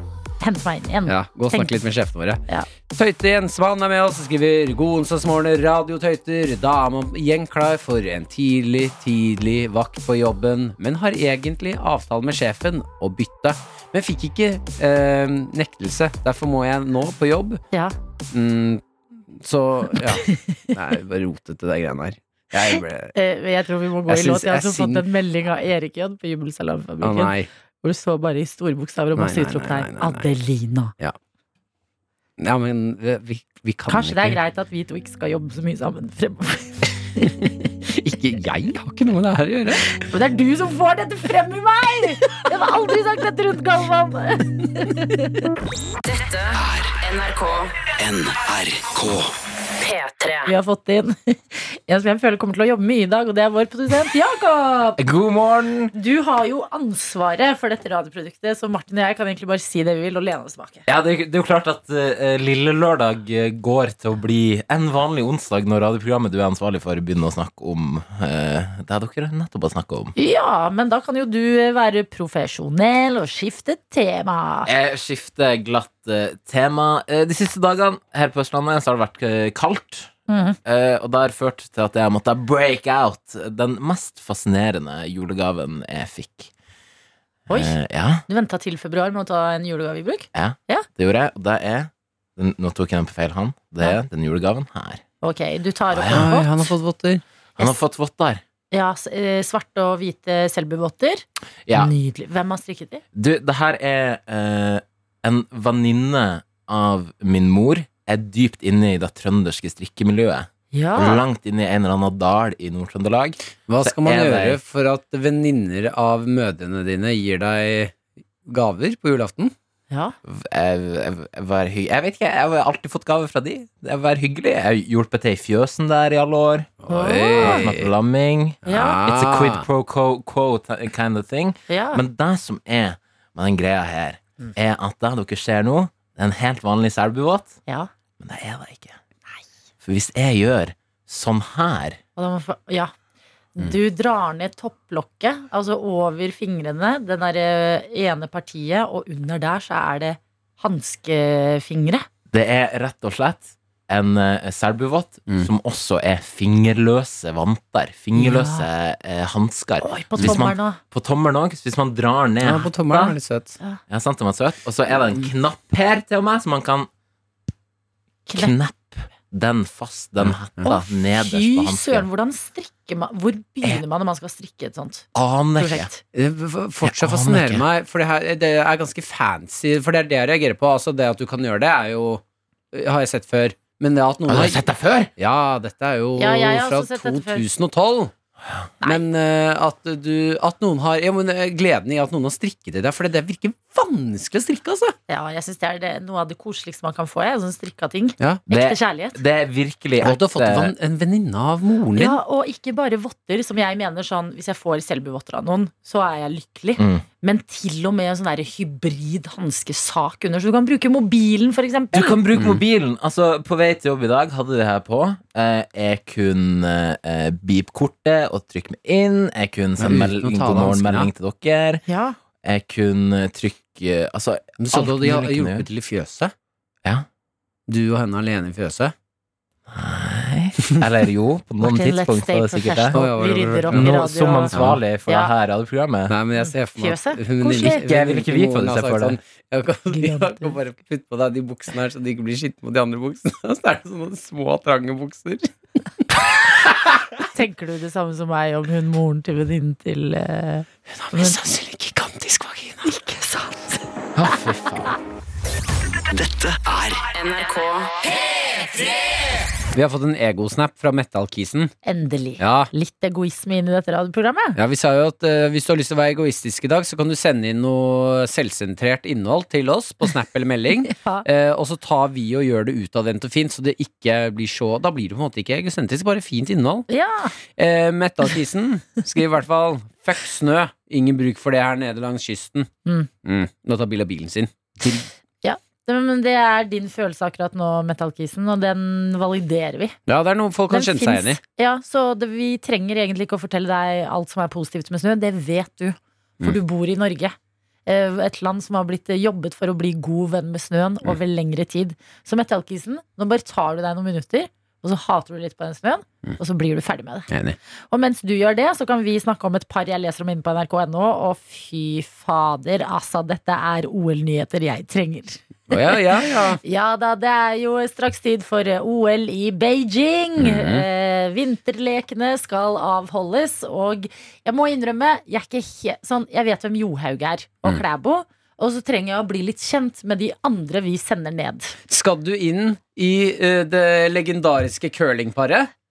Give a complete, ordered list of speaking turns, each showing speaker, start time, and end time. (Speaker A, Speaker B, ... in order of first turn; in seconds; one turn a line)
Speaker A: 0.4-1.7
Speaker B: 1.1-17.6
Speaker B: 18.3-23.1
Speaker A: 22.7-30.9
Speaker B: 24.1-25.0
Speaker B: 27.0-27.5
Speaker B: 29.1-30.3
Speaker B: 32.4-34.4
Speaker A: 33.9-37.4
Speaker B: 37.3-39.9
Speaker A: 39.9-45.5
Speaker C: 46.0-47.9
Speaker D: 46.5-47.0
Speaker D: 48.0-49.3
Speaker C: 49.8-50.5
Speaker A: 50.5-55.0
Speaker E: 55.0-55.9
Speaker A: 55.9-60.8
Speaker E: 60.9-70.1
Speaker A: 70.2-74.7
Speaker E: 74.7-80.1
Speaker A: 80.3-80.6
Speaker E: 80.6-86.5
Speaker A: 87.5-87.8
Speaker E: 87.5-88.2
Speaker A: 88.3-90.8
Speaker E: 90.3-95.0
Speaker A: 95.2-96.7
Speaker E: 95.9-96.3
Speaker B: 96.1-97.2
Speaker E: 97.6-98.4
Speaker A: 98.7-103.0
Speaker E: 101.7-101.9
Speaker E: 103.1-114.6
Speaker A: 110.7-111.2
Speaker B: 113.7-117.9
Speaker B: 118.5-119.5
Speaker E: 120.2-126.8
Speaker B: 126.8-127.9
Speaker A: 126.9-127.7
Speaker E: 127.4-137.6
Speaker A: 128.7-129.0
Speaker B: 128.7-129.7
Speaker A: 131.7-132.0
Speaker E: 138.2-138.9
Speaker E: 139.8-142.0
Speaker A: 142.2-142.9
Speaker A: 143.6-152.0
Speaker E: 152.3-163.2
Speaker A: 158.2-158.7
Speaker A: 159.8-160.8
Speaker B: 162.4-163.6
Speaker E: 163.9-166.9
Speaker A: 168.3-168.5
Speaker E: 168.3-172.1
Speaker A: 170.6-175.1
Speaker E: 175.1-175.9
Speaker A: 175.6-176.0
Speaker B: 176.1-184.6
Speaker E: 176.8-177.6
Speaker E: 184.3-185.1
Speaker B: 185.2-188.1
Speaker A: 186.2-187.4
Speaker B: 188.8-194.9
Speaker A: 195.1-199.2
Speaker E: 198.5-200.7
Speaker B: 200.0-202.2
Speaker A: 201.9-212.2
Speaker E: 206.8-207.0
Speaker E: 211.9-221.8
Speaker B: 212.3-212.6
Speaker B: 219.8-221.1
Speaker A: 221.9-222.2
Speaker E: 222.4-225.7
Speaker B: 224.6-226.3
Speaker B: 227.7-228.9
Speaker E: 229.7-233.0
Speaker A: 231.6-234.5
Speaker B: 232.9-233.9
Speaker E: 233.7-236.2
Speaker B: 234.5-234.8
Speaker B: 236.1-245.5
Speaker A: 236.8-237.8
Speaker E: 237.5-239.2
Speaker A: 239.9-240.6
Speaker A: 247.3-251.4
Speaker B: 250.9-252.9
Speaker A: 252.8-253.8
Speaker E: 254.2-254.9
Speaker D: 256.1-257.1
Speaker C: 257.1-258.0
Speaker B: 259.7-261.7
Speaker A: 261.8-264.6
Speaker B: 262.4-262.7
Speaker B: 264.6-276.9
Speaker A: 270.9-271.2
Speaker A: 276.9-277.3
Speaker B: 277.6-282.7
Speaker B: 283.2-285.1
Speaker A: 285.4-289.9
Speaker B: 290.1-291.4
Speaker A: 290.7-297.3
Speaker A: 297.9-307.3
Speaker B: 307.3-307.6
Speaker A: 307.9-316.0
Speaker B: 315.7-316.6
Speaker A: 316.6-331.7
Speaker B: 320.4-320.9
Speaker B: 331.9-335.7